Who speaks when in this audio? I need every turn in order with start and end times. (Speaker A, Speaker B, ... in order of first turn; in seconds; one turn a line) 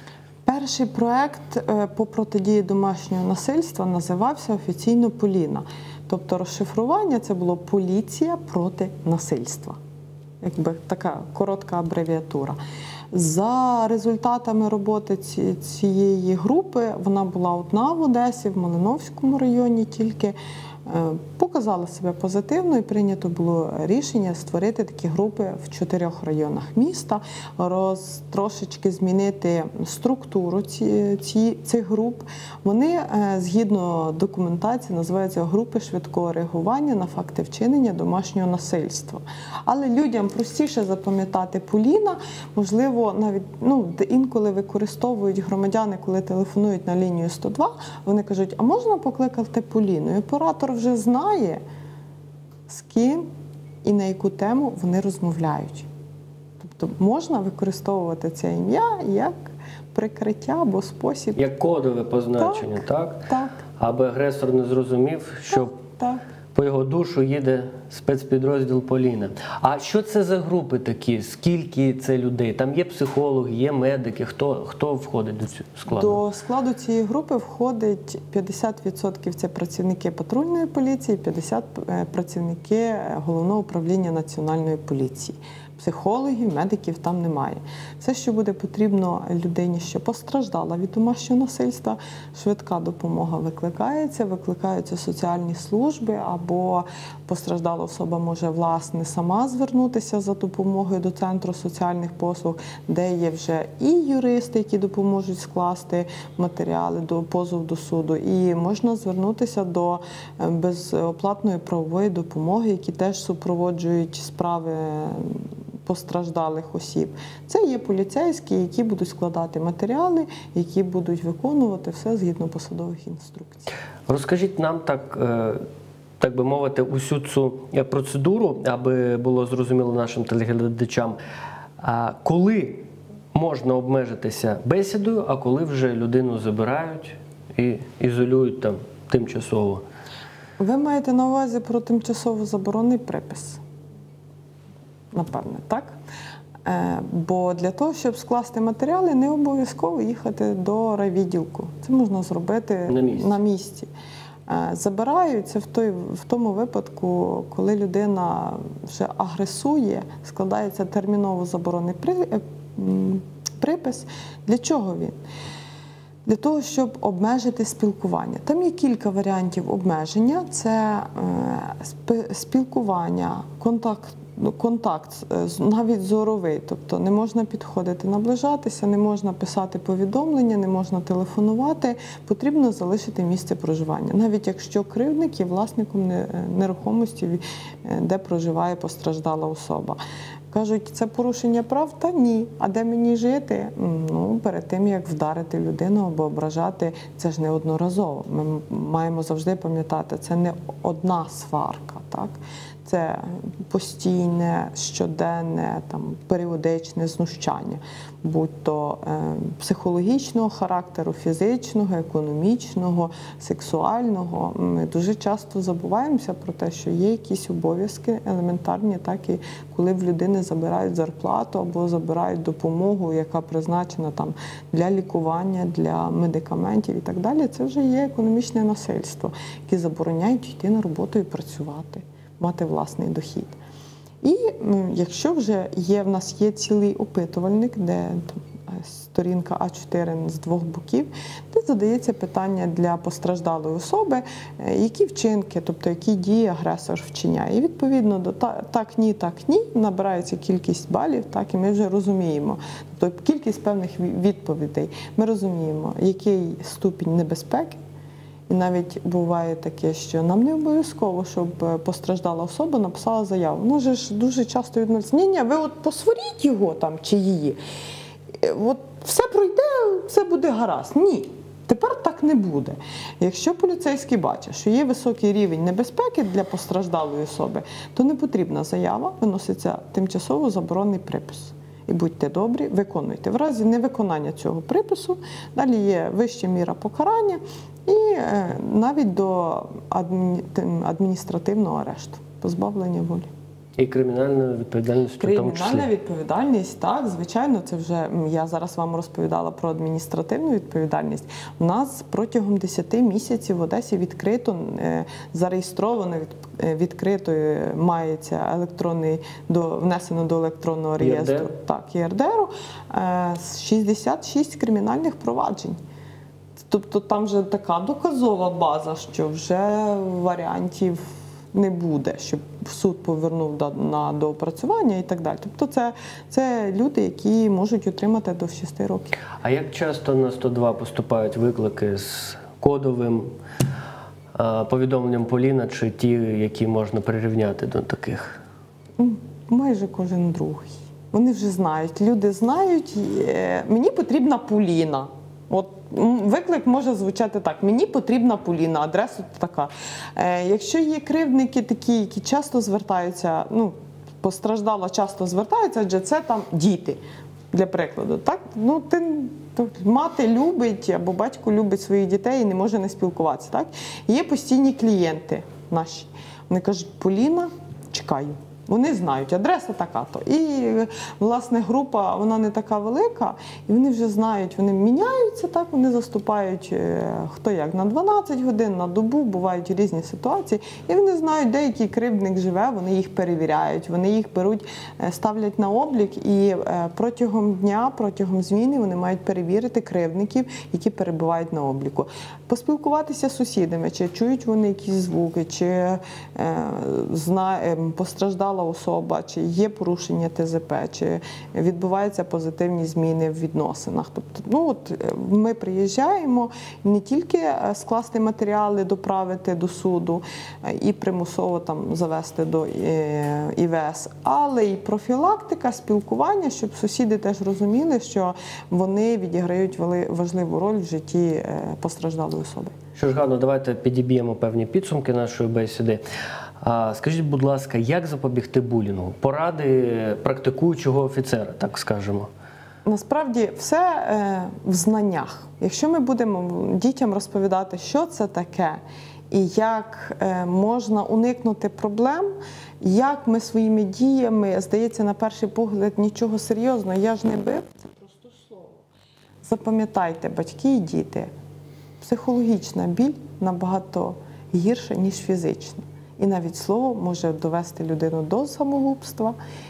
Speaker A: 0.5-9.8
Speaker A: 10.4-12.6
Speaker A: 13.1-51.6
Speaker A: 52.7-53.2
Speaker A: 53.8-55.9
Speaker A: 56.6-61.4
Speaker B: 61.4-65.7
Speaker A: 62.4-63.6
Speaker A: 65.5-66.2
Speaker B: 66.5-76.2
Speaker A: 75.9-123.7
Speaker B: 124.1-125.6
Speaker B: 126.2-131.2
Speaker B: 131.8-139.8
Speaker A: 140.6-143.6
Speaker A: 145.1-146.0
Speaker A: 146.6-153.9
Speaker B: 152.9-153.3
Speaker A: 154.5-165.2
Speaker A: 166.2-190.0
Speaker A: 190.5-233.6
Speaker A: 234.2-257.8
Speaker A: 258.5-267.6
Speaker A: 268.4-293.3
Speaker B: 293.8-295.9
Speaker A: 295.2-315.8
Speaker B: 311.0-311.5
Speaker A: 316.7-329.2
Speaker B: 329.4-333.3
Speaker B: 334.3-338.4
Speaker A: 339.0-357.0
Speaker A: 357.5-422.7
Speaker B: 422.9-426.0
Speaker B: 426.6-432.3
Speaker A: 432.8-438.8
Speaker A: 439.3-448.8
Speaker A: 449.4-451.3
Speaker A: 452.0-459.4